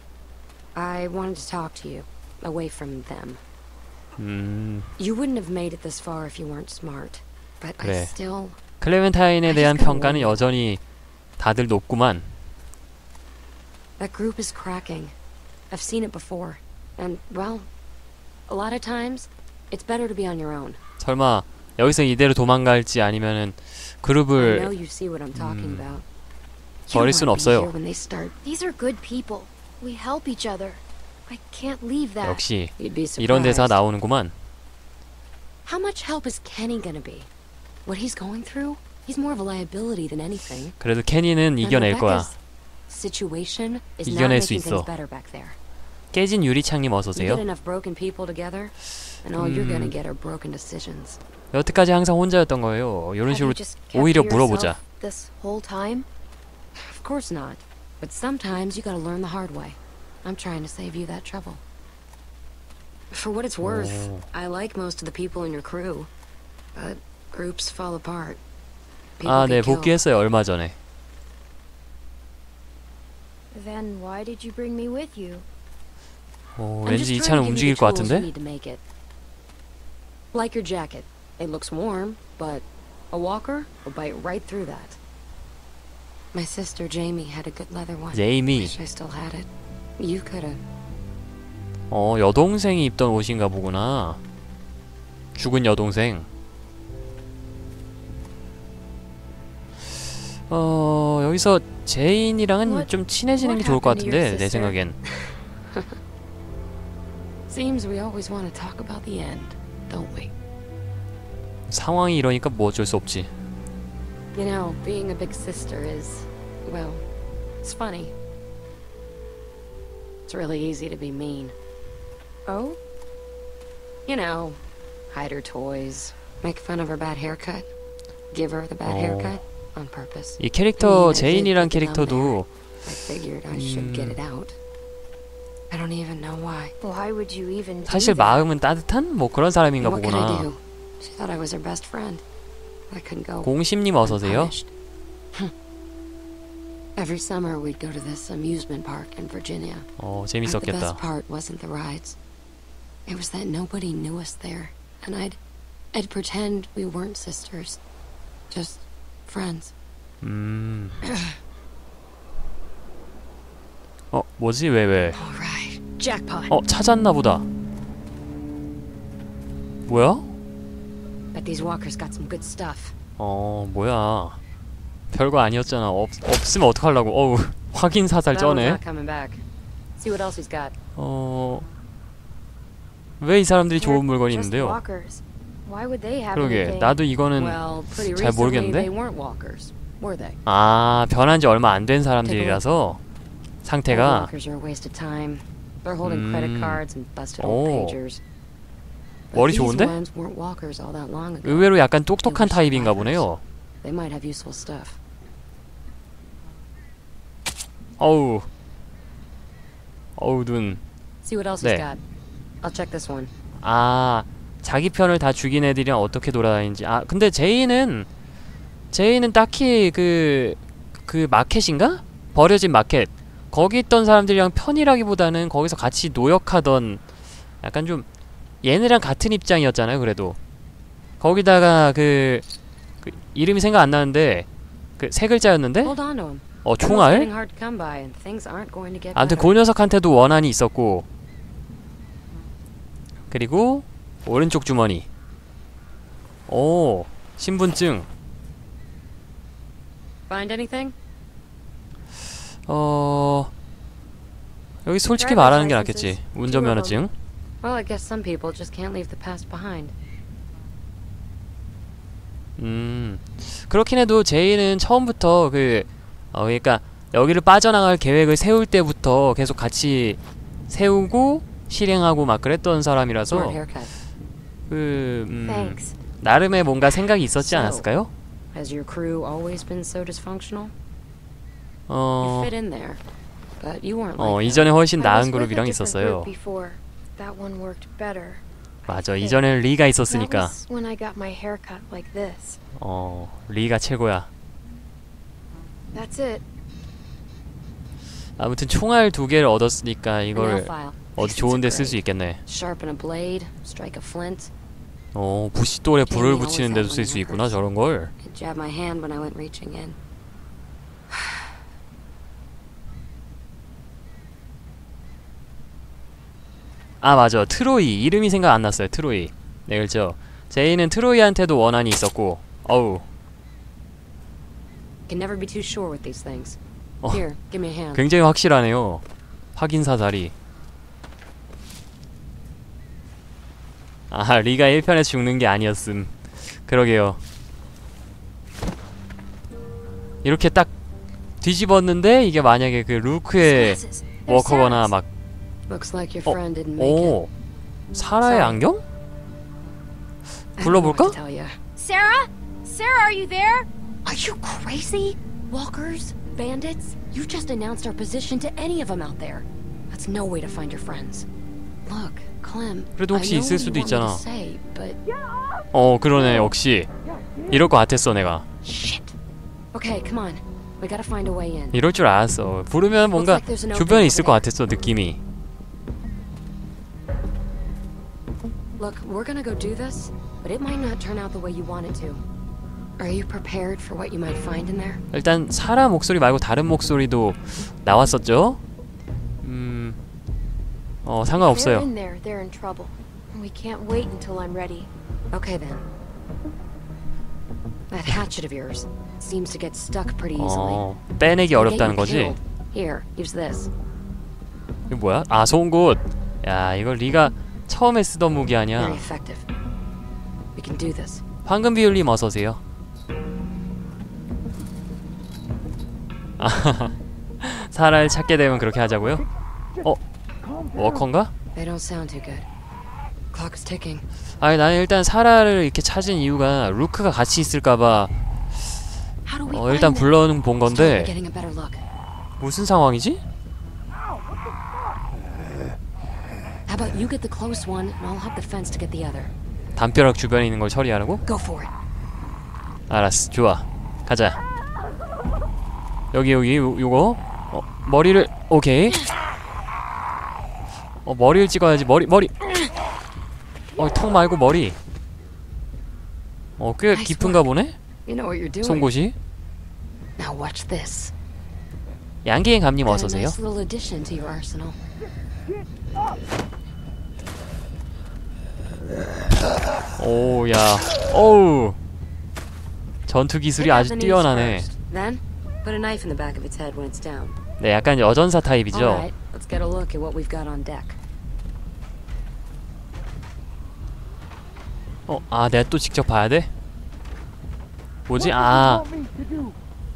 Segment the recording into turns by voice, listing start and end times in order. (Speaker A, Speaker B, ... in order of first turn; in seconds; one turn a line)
Speaker A: 0.7-3.4
Speaker B: 4.2-4.9
Speaker A: 5.0-8.6
Speaker B: 7.8-8.1
Speaker B: 8.8-10.8
Speaker A: 9.4-10.4
Speaker B: 11.4-12.3
Speaker A: 14.0-15.1
Speaker A: 15.7-17.7
Speaker A: 18.5-20.8
Speaker B: 21.0-24.7
Speaker A: 24.4-26.0
Speaker B: 25.3-25.9
Speaker A: 26.9-28.4
Speaker B: 26.9-27.7
Speaker C: 28.4-32.4
Speaker B: 32.2-34.3
Speaker A: 32.8-33.8
Speaker A: 35.6-37.3
Speaker A: 37.9-40.7
Speaker B: 40.8-42.3
Speaker A: 41.6-42.4
Speaker A: 42.9-45.6
Speaker B: 44.0-44.9
Speaker B: 46.1-47.4
Speaker A: 47.1-51.2
Speaker B: 49.3-49.9
Speaker B: 51.5-54.8
Speaker C: 53.3-56.0
Speaker A: 56.8-61.6
Speaker A: 63.1-66.1
Speaker B: 63.6-64.2
Speaker A: 66.7-68.4
Speaker A: 69.2-70.0
Speaker B: 69.2-70.8
Speaker C: 73.5-75.4
Speaker B: 76.6-78.3
Speaker A: 76.8-78.8
Speaker A: 80.3-85.0
Speaker A: 86.3-90.6
Speaker B: 88.1-88.7
Speaker B: 91.9-94.2
Speaker B: 95.3-96.3
Speaker B: 100.5-105.0
Speaker C: 102.6-104.8
Speaker A: 105.0-106.0
Speaker A: 107.5-110.3
Speaker B: 111.7-113.3
Speaker A: 114.3-117.0
Speaker A: 117.6-118.1
Speaker A: 120.3-121.5
Speaker C: 122.5-122.8
Speaker A: 124.0-124.6
Speaker A: 125.1-127.7
Speaker A: 128.3-134.6
Speaker B: 128.8-129.4
Speaker B: 130.4-132.5
Speaker B: 133.5-134.2
Speaker A: 135.7-136.7
Speaker C: 136.8-138.5
Speaker B: 137.8-140.5
Speaker A: 139.8-142.2
Speaker A: 142.9-144.7
Speaker B: 143.4-144.5
Speaker A: 146.9-149.9
Speaker B: 150.0-151.0
Speaker A: 150.4-152.2
Speaker A: 153.1-155.4
Speaker A: 155.9-157.8
Speaker A: 158.5-159.7
Speaker B: 160.2-161.0
Speaker A: 161.0-161.4
Speaker B: 164.1-165.2
Speaker A: 165.1-166.5
Speaker B: 166.5-167.4
Speaker B: 169.9-170.3
Speaker A: 171.3-172.9
Speaker B: 173.2-174.4
Speaker B: 175.1-178.8
Speaker A: 178.3-179.4
Speaker A: 180.0-180.7
Speaker B: 181.0-181.7
Speaker B: 183.2-184.8
Speaker C: 183.7-187.0
Speaker B: 186.3-188.9
Speaker A: 187.3-190.4
Speaker B: 190.4-193.0
Speaker A: 192.2-192.6
Speaker B: 193.6-194.3
Speaker A: 193.9-198.2
Speaker B: 196.0-196.8
Speaker B: 197.4-198.0
Speaker A: 199.3-201.7
Speaker B: 199.3-200.0
Speaker B: 201.4-203.4
Speaker A: 202.2-205.0
Speaker B: 208.0-208.5
Speaker B: 210.2-210.8
Speaker A: 211.2-212.0
Speaker A: 212.6-213.3
Speaker B: 213.6-218.1
Speaker B: 218.9-227.0
Speaker B: 227.6-228.1
Speaker B: 228.6-230.4
Speaker B: 231.2-232.4
Speaker B: 233.0-234.4
Speaker B: 235.0-235.9
Speaker A: 235.8-239.5
Speaker B: 236.6-237.3
Speaker B: 239.1-241.1
Speaker B: 243.3-245.1
Speaker B: 246.5-248.1
Speaker A: 250.3-250.9
Speaker B: 252.7-253.5
Speaker B: 254.8-257.1
Speaker C: 255.2-257.1
Speaker A: 257.6-259.9
Speaker B: 262.6-273.6
Speaker A: 273.3-273.9
Speaker B: 274.7-278.1
Speaker C: 275.4-275.9
Speaker A: 277.4-277.9
Speaker A: 278.5-280.7
Speaker B: 281.9-282.5
Speaker A: 282.2-283.0
Speaker A: 283.6-284.7
Speaker B: 284.2-286.3
Speaker C: 284.9-289.4
Speaker B: 288.9-290.6
Speaker C: 290.1-292.6
Speaker B: 292.8-294.3
Speaker C: 295.9-296.4
Speaker B: 298.4-302.4
Speaker A: 300.3-304.5
Speaker B: 305.1-308.1
Speaker A: 306.1-307.6
Speaker A: 308.2-310.0
Speaker A: 311.1-311.6
Speaker B: 317.0-323.0
Speaker A: 325.1-326.6
Speaker A: 327.1-328.0
Speaker B: 327.9-329.0
Speaker B: 329.6-330.3
Speaker B: 334.1-337.2
Speaker B: 340.2-340.7
Speaker B: 341.4-345.1
Speaker C: 343.4-344.9
Speaker A: 345.7-347.1
Speaker B: 346.2-347.3
Speaker B: 347.9-348.8
Speaker A: 348.2-348.6
Speaker B: 350.6-351.2
Speaker A: 350.6-351.6
Speaker C: 351.8-353.7
Speaker A: 354.0-361.3
Speaker A: 361.9-365.0
Speaker B: 363.0-364.2
Speaker B: 365.7-366.9
Speaker B: 367.5-368.4
Speaker A: 368.6-369.1
Speaker A: 369.7-371.8
Speaker B: 371.7-375.2
Speaker A: 373.1-374.4
Speaker A: 378.8-382.2
Speaker A: 383.0-385.0
Speaker B: 385.1-388.6
Speaker B: 389.4-390.0
Speaker B: 391.0-391.9
Speaker C: 391.3-394.9
Speaker A: 395.3-395.9
Speaker A: 397.9-400.8
Speaker B: 400.4-402.4
Speaker A: 401.5-403.7
Speaker B: 404.9-409.0
Speaker A: 408.8-409.5
Speaker A: 410.5-411.2
Speaker B: 411.4-412.6
Speaker B: 416.4-419.2
Speaker B: 420.7-421.3
Speaker A: 421.5-422.4
Speaker A: 423.3-424.0
Speaker B: 424.4-428.1
Speaker A: 429.3-430.1
Speaker B: 429.5-431.1
Speaker A: 430.7-431.8
Speaker B: 432.4-433.2
Speaker A: 436.7-439.3
Speaker B: 439.8-441.2
Speaker A: 441.2-441.7
Speaker B: 442.9-444.4
Speaker B: 446.1-449.0
Speaker B: 451.0-452.4
Speaker B: 453.8-454.8
Speaker B: 456.6-457.8
Speaker A: 456.9-457.4
Speaker A: 458.0-458.9
Speaker B: 458.6-459.1
Speaker A: 460.2-461.1
Speaker B: 462.2-463.4
Speaker A: 462.8-464.8
Speaker B: 470.0-471.8
Speaker B: 473.1-474.7
Speaker A: 473.6-477.4
Speaker B: 477.6-479.1
Speaker A: 478.7-481.0
Speaker B: 485.1-486.5
Speaker B: 488.1-488.8